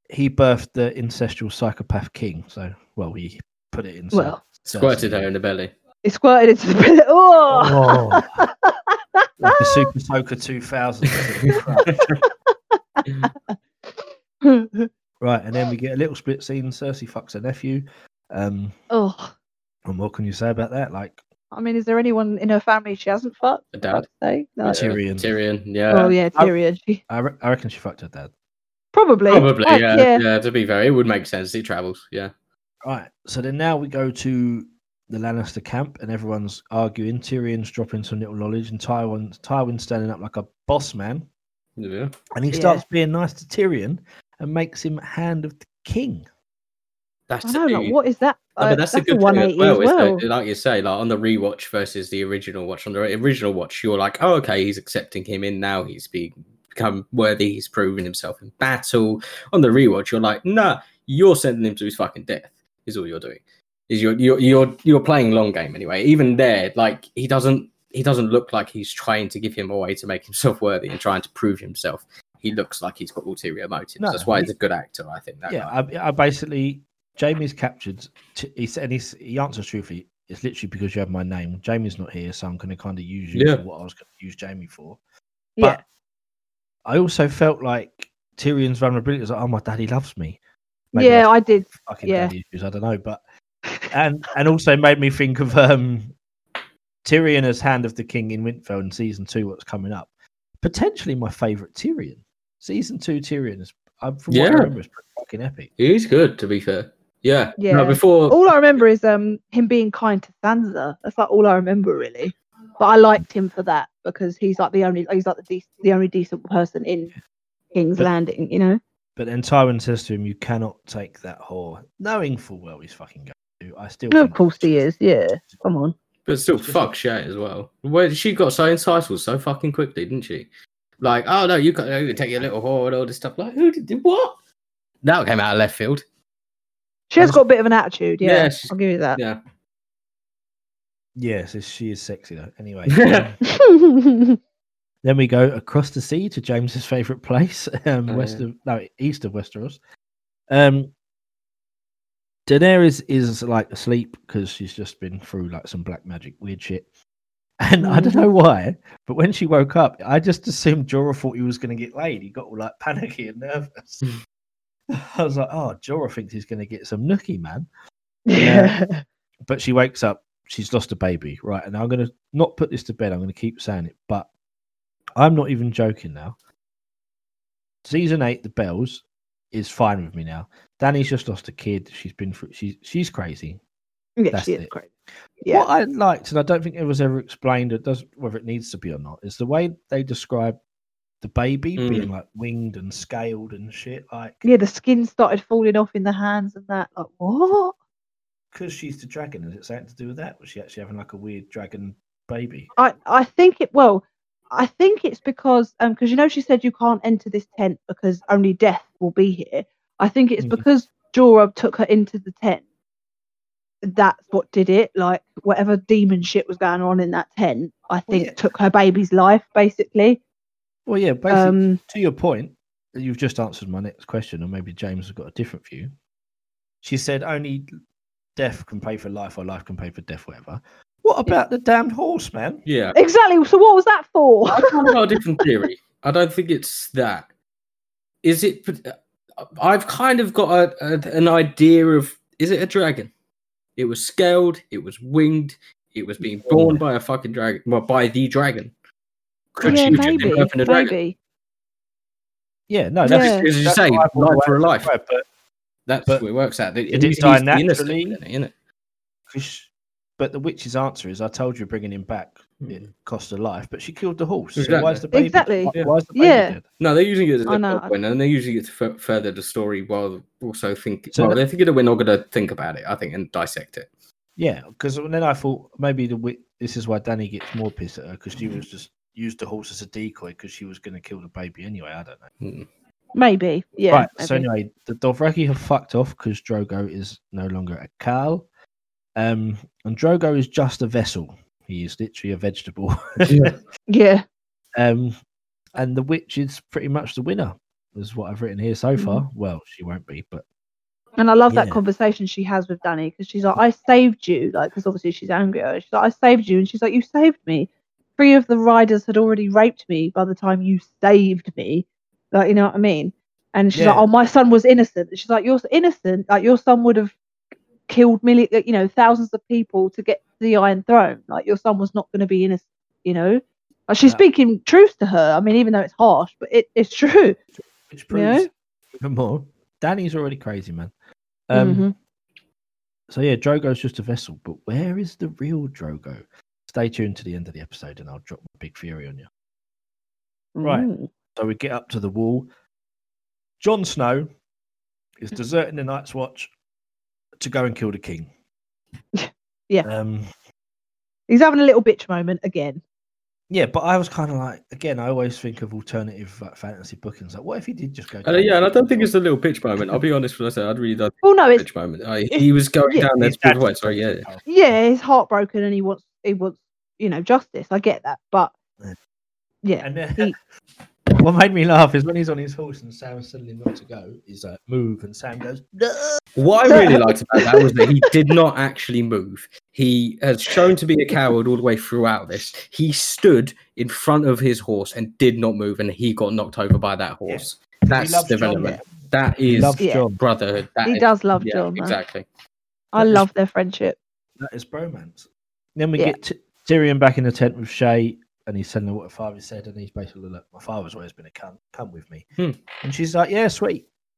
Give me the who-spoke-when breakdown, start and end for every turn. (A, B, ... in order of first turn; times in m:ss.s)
0:00.1-0:05.3 A
0:04.1-0:04.4 B
0:04.7-0:05.7 C
0:06.0-0:09.9 B
0:07.5-0:08.4 A
0:09.4-0:12.0 A
0:11.5-0:12.2 C
0:12.5-0:14.9 B
0:15.2-0:18.8 A
0:18.9-0:19.3 B
0:19.8-0:21.2 A
0:21.5-0:24.8 B
0:23.7-0:24.1 C
0:24.6-0:26.2 C
0:24.7-0:25.3 A
0:25.9-0:27.0 B
0:27.1-0:28.3 A
0:28.9-0:30.2 B
0:29.3-0:32.3 C
0:32.8-0:41.3 A
0:41.8-0:42.1 C
0:42.3-0:46.3 A
0:42.5-0:42.8 B
0:47.3-0:48.0 C
0:47.4-0:50.2 B
0:48.6-1:15.7 C
1:14.0-1:14.5 A
1:15.5-1:25.0 A
1:23.3-1:23.6 C
1:26.9-1:30.4 A
1:30.9-1:33.2 A
1:31.0-1:32.3 B
1:33.9-1:36.1 A
1:37.0-1:45.7 A
1:44.3-1:44.7 C
1:45.8-1:48.5 C
1:47.6-1:57.1 B
1:57.7-1:58.8 B
1:59.2-2:04.9 A
2:04.1-2:05.9 B
2:06.3-2:10.5 C
2:06.6-2:06.9 A
2:11.0-2:14.4 C
2:15.0-2:16.0 C
2:17.1-2:19.2 B
2:18.2-2:19.4 C
2:21.2-2:23.4 A
2:22.9-2:23.3 C
2:23.5-2:24.4 B
2:25.0-2:29.8 A
2:28.1-2:28.4 C
2:30.5-2:30.9 A
2:32.5-2:36.9 A
2:37.6-2:44.0 A
2:37.8-2:38.3 B
2:44.9-2:47.7 A
2:48.3-2:49.0 B
2:48.4-2:48.8 A
2:49.5-2:54.3 A
2:55.2-2:56.4 A
2:57.8-3:03.6 A
3:04.2-3:04.9 B
3:04.3-3:04.7 A
3:05.4-3:05.7 B
3:05.5-3:10.6 A
3:11.2-3:14.4 A
3:11.8-3:12.1 C
3:14.4-3:17.8 B
3:18.5-3:22.7 A
3:22.8-3:32.6 B
3:30.4-3:30.6 A
3:33.8-3:40.2 B
3:38.1-3:38.4 A
3:40.9-3:45.9 A
3:41.3-3:41.8 B
3:46.8-3:47.7 A
3:48.4-3:52.6 A
3:52.7-3:53.0 C
3:52.9-3:54.8 B
3:54.5-3:57.3 C
3:58.2-4:03.1 C
4:03.8-4:08.7 C
4:06.4-4:06.8 A
4:09.6-4:11.0 C
4:09.6-4:10.3 A
4:09.6-4:11.2 B
4:12.7-4:15.2 A
4:13.0-4:13.5 B
4:13.1-4:14.9 C
4:15.9-4:18.5 C
4:16.9-4:18.2 A
4:19.3-4:26.6 A
4:22.6-4:22.9 C
4:24.6-4:25.0 C
4:25.1-4:26.6 B
4:26.8-4:33.9 C
4:27.5-4:27.9 B
4:31.1-4:31.4 A
4:34.4-4:42.3 A
4:42.4-4:42.7 C
4:43.2-4:44.5 B
4:43.9-4:48.5 A
4:49.2-4:53.5 A
4:53.3-4:53.5 C
4:53.9-4:54.2 B
4:54.8-4:55.1 A
4:55.8-5:00.4 A
5:01.2-5:17.2 B
5:01.5-5:01.8 A
5:13.7-5:14.1 A
5:17.9-5:27.4 B
5:27.6-5:30.9 A
5:28.1-5:28.5 B
5:31.5-5:31.9 A
5:31.5-5:31.9 B
5:33.1-5:39.3 A
5:40.6-5:41.1 B
5:40.6-5:42.5 A
5:43.6-5:44.3 A
5:45.2-5:46.5 A
5:47.4-5:48.3 A
5:49.2-5:49.9 B
5:49.8-5:50.3 A
5:51.3-5:52.8 B
5:53.5-5:59.1 A
5:58.2-6:04.3 C
6:01.2-6:01.6 B
6:02.3-6:03.1 B
6:03.2-6:04.5 A
6:04.5-6:08.5 B
6:09.6-6:10.4 B
6:09.8-6:10.4 A
6:11.1-6:16.2 A
6:16.4-6:32.3 C
6:16.7-6:17.0 B
6:27.3-6:28.9 A
6:29.4-6:30.2 A
6:29.8-6:30.0 B
6:30.8-6:32.0 B
6:32.9-6:34.0 B
6:33.0-6:33.2 A
6:34.4-6:42.3 A
6:42.8-6:43.9 A